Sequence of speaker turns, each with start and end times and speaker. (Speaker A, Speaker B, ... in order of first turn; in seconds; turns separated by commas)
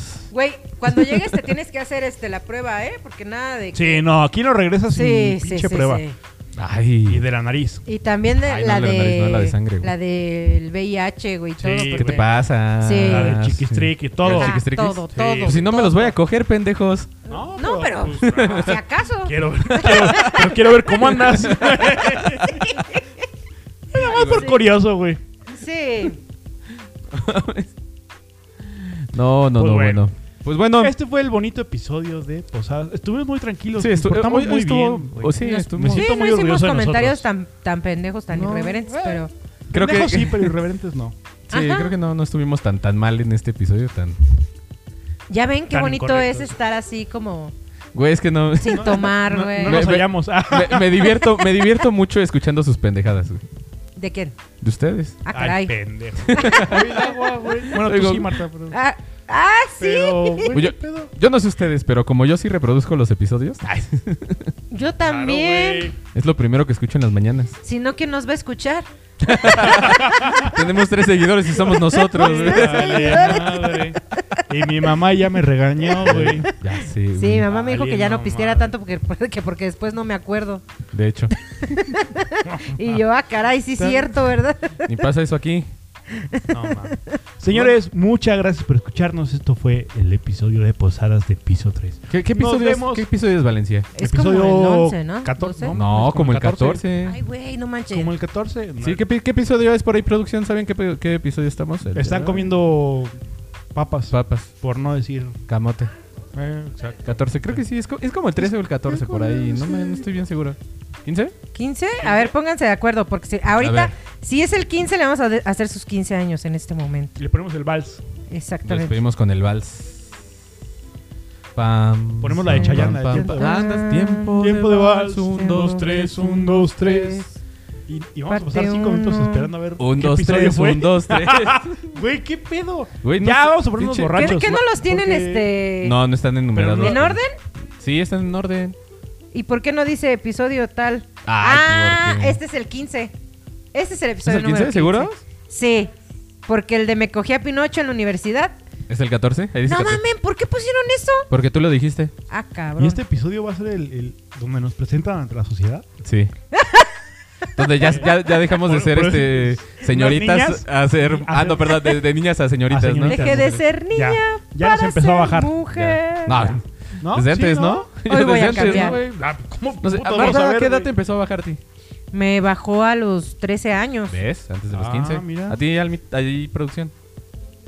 Speaker A: 0.3-4.0, Speaker B: 0.9-1.3, Speaker C: 3.7-6.0, Speaker A: 4.9-6.2, Speaker B: 6.6-7.2, Speaker C: 7.1-7.8, Speaker A: 7.8-12.3, Speaker B: 8.4-9.9, Speaker C: 11.6-12.2, Speaker B: 11.9-17.1, Speaker A: 12.8-13.4, Speaker C: 13.0-14.6, Speaker A: 14.3-16.1, Speaker C: 15.1-15.9, Speaker C: 17.2-22.6, Speaker A: 17.3-20.7, Speaker B: 18.3-18.8, Speaker B: 19.9-20.4, Speaker B: 20.9-22.8, Speaker A: 22.5-23.0, Speaker C: 23.9-25.2, Speaker A: 23.9-24.7, Speaker B: 24.0-24.5, Speaker A: 25.5-26.2, Speaker B: 27.1-27.7, Speaker B: 29.1-30.9, Speaker C: 29.6-30.1, Speaker C: 30.8-37.2, Speaker B: 33.8-36.1, Speaker A: 35.4-39.3, Speaker C: 38.3-41.1, Speaker B: 39.7-40.6, Speaker B: 41.5-44.2, Speaker A: 41.5-41.9, Speaker A: 45.3-47.5, Speaker C: 45.7-46.5, Speaker B: 47.9-53.4, Speaker A: 48.6-49.9, Speaker C: 48.7-51.2, Speaker A: 51.0-51.8, Speaker A: 54.0-54.3, Speaker B: 54.6-55.2, Speaker A: 55.2-55.7, Speaker C: 55.3-58.8, Speaker B: 56.2-58.4, Speaker A: 56.3-56.8, Speaker A: 58.7-60.5, Speaker C: 59.8-61.1, Speaker B: 60.5-64.5, Speaker A: 64.7-65.9, Speaker C: 65.0-66.0, Speaker B: 66.1-67.6, Speaker A: 67.6-70.0, Speaker B: 69.2-73.4, Speaker C: 69.6-70.6, Speaker A: 71.6-74.4, Speaker C: 72.1-76.5, Speaker B: 76.0-77.5, Speaker A: 77.1-80.6, Speaker C: 77.5-78.7, Speaker B: 80.9-81.3, Speaker A: 81.5-85.1, Speaker C: 82.4-83.0, Speaker C: 83.8-84.1, Speaker B: 84.9-85.7, Speaker A: 86.1-87.2, Speaker C: 86.5-93.0, Speaker B: 87.5-87.7, Speaker B: 92.1-93.9, Speaker A: 93.9-95.8, Speaker C: 94.0-96.8, Speaker B: 95.7-97.2, Speaker A: 97.0-98.1, Speaker C: 97.9-99.0, Speaker B: 98.8-102.4, Speaker C: 101.9-103.1, Speaker C: 103.7-105.4, Speaker B: 104.1-104.5, Speaker B: 105.5-105.9, Speaker C: 106.3-107.6, Speaker B: 107.0-111.3, Speaker C: 108.4-110.1, Speaker A: 111.5-117.2, Speaker C: 112.0-112.3, Speaker B: 113.6-113.9, Speaker C: 117.2-118.0, Speaker A: 118.3-119.0, Speaker B: 118.6-120.2, Speaker B: 121.5-126.7, Speaker C: 122.2-123.8, Speaker A: 122.5-124.4, Speaker C: 124.3-127.3, Speaker A: 126.6-127.3, Speaker C: 127.9-135.5, Speaker A: 128.3-129.5, Speaker B: 129.8-131.9, Speaker B: 133.0-134.4, Speaker A: 134.1-135.9, Speaker B: 135.8-137.2, Speaker C: 136.5-137.1, Speaker A: 136.8-137.3, Speaker B: 137.8-138.8, Speaker A: 139.3-143.1, Speaker B: 141.2-142.4, Speaker A: 143.7-145.9, Speaker B: 144.2-145.2, Speaker A: 146.5-148.6, Speaker B: 148.9-150.0, Speaker A: 149.7-151.3, Speaker B: 151.3-152.1, Speaker A: 152.3-153.0, Speaker C: 152.8-155.8, Speaker B: 156.0-156.3, Speaker A: 156.5-157.0, Speaker B: 157.6-163.6, Speaker C: 157.8-161.8, Speaker C: 162.7-165.5, Speaker A: 163.0-166.6, Speaker B: 165.7-169.2, Speaker C: 167.0-167.9, Speaker A: 168.1-169.0, Speaker C: 168.5-170.9, Speaker B: 169.8-171.6, Speaker A: 172.1-174.2, Speaker B: 174.1-176.9, Speaker C: 174.7-175.6